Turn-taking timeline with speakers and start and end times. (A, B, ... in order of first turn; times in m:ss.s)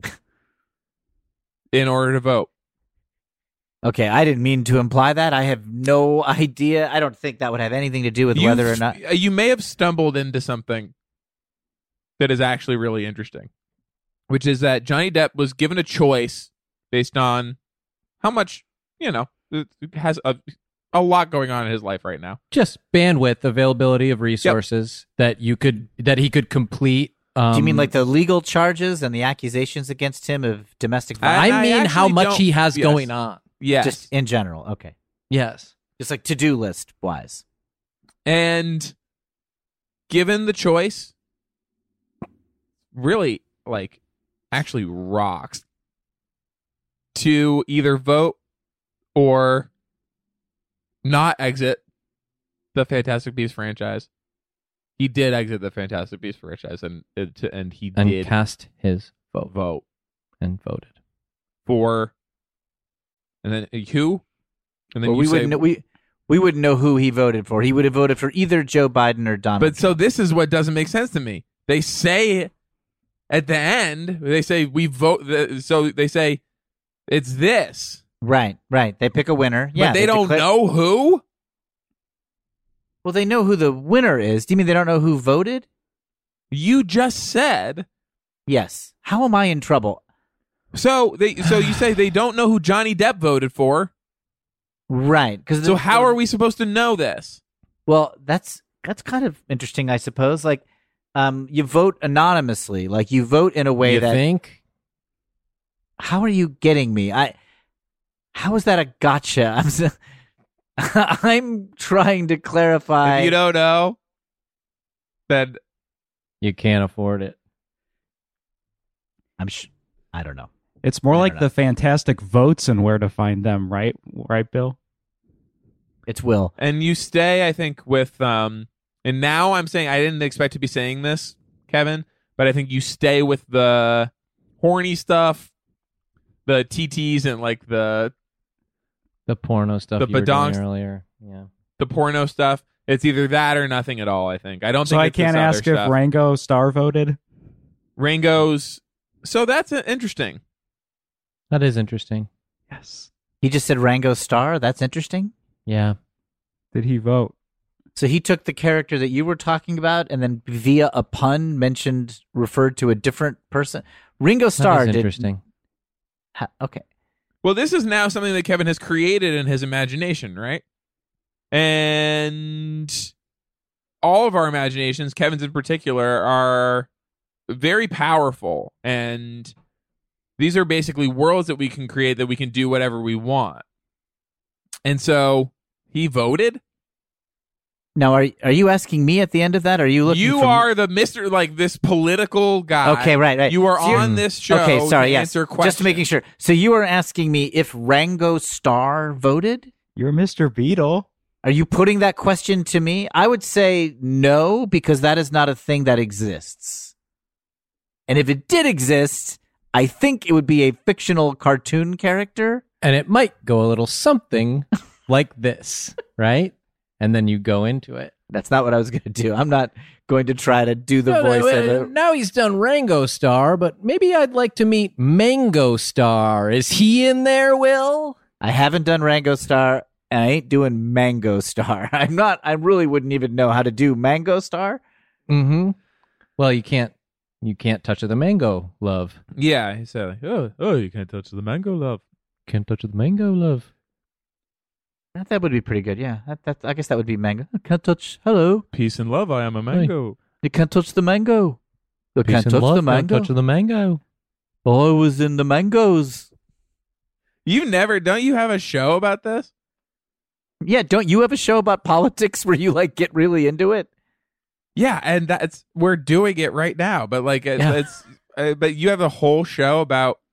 0:01.7-0:02.5 A
0:03.8-0:09.0 B
0:08.3-0:10.9 A
0:12.2-0:13.5 A
0:14.3-0:17.6 A
0:18.2-0:20.4 A
0:20.9-0:22.4 A
0:22.5-0:27.9 C
0:27.5-0:31.6 B
0:31.2-0:33.1 A
0:31.3-0:33.4 C
0:33.6-0:34.0 A
0:33.8-0:34.9 B
0:35.3-0:35.7 C
0:36.0-0:37.4 B
0:38.2-0:38.9 A
0:40.1-0:41.1 A
0:42.9-0:44.0 A
0:44.5-0:45.6 A
0:47.1-0:48.4 A
0:49.1-0:49.7 A
0:51.0-0:51.8 A
0:52.7-0:54.1 A
0:55.0-0:58.3 A
0:58.0-0:59.5 C
0:59.5-0:59.8 A
1:00.4-1:00.9 C
1:01.6-1:02.1 A
1:03.4-1:04.2 A
1:04.9-1:05.6 A
1:05.0-1:10.0 B
1:09.6-1:12.5 A
1:13.3-1:16.4 A
1:17.1-1:18.0 A
1:18.2-1:20.4 B
1:19.8-1:21.2 A
1:23.0-1:25.6 B
1:26.5-1:27.8 A
1:28.5-1:30.0 B
1:30.7-1:33.9 A
1:34.9-1:36.1 B
1:35.6-1:37.4 A
1:37.9-1:40.6 B
1:41.1-1:44.2 B
1:43.8-1:44.6 C
1:46.0-1:47.3 B
1:48.3-1:49.9 B
1:50.8-1:53.3 B
1:53.0-1:54.0 A
1:55.3-1:55.6 A
1:56.4-1:57.4 C
1:59.4-2:00.5 B
2:00.8-2:04.8 D
2:01.1-2:01.5 B
2:06.1-2:06.5 B
2:06.6-2:15.5 A
2:16.4-2:18.1 A
2:19.3-2:21.5 C
2:20.0-2:20.6 A
2:21.8-2:26.0 A
2:24.9-2:27.2 D
2:28.0-2:30.4 A
2:31.5-2:32.3 C
2:32.7-2:33.1 D
2:33.4-2:35.3 B
2:35.6-2:36.0 C
2:36.7-2:37.3 D
2:38.0-2:45.3 B
2:44.6-2:45.4 C
2:46.4-2:46.8 B
2:47.4-2:50.6 A
2:51.5-2:53.1 A
2:54.0-2:56.9 A
2:57.5-2:59.5 A
3:00.4-3:03.6 A
3:04.8-3:06.6 A
3:08.0-3:10.6 B
3:10.1-3:16.0 A
3:12.8-3:19.7 B
3:13.9-3:14.2 C
3:20.0-3:21.1 D
3:21.4-3:26.9 B
3:28.1-3:32.6 B
3:32.8-3:38.1 C
3:38.3-3:41.9 B
3:41.0-3:48.2 C
3:48.4-3:54.8 B
3:55.3-3:55.8 C
3:56.4-3:59.2 C
3:59.4-4:02.0 A
4:02.5-4:03.7 C
4:05.1-4:08.6 B
4:08.7-4:10.2 A
4:10.4-4:11.6 B
4:12.1-4:13.3 B
4:12.2-4:14.0 C
4:14.6-4:16.3 B
4:17.4-4:19.5 A
4:20.6-4:23.9 B
4:24.8-4:30.2 A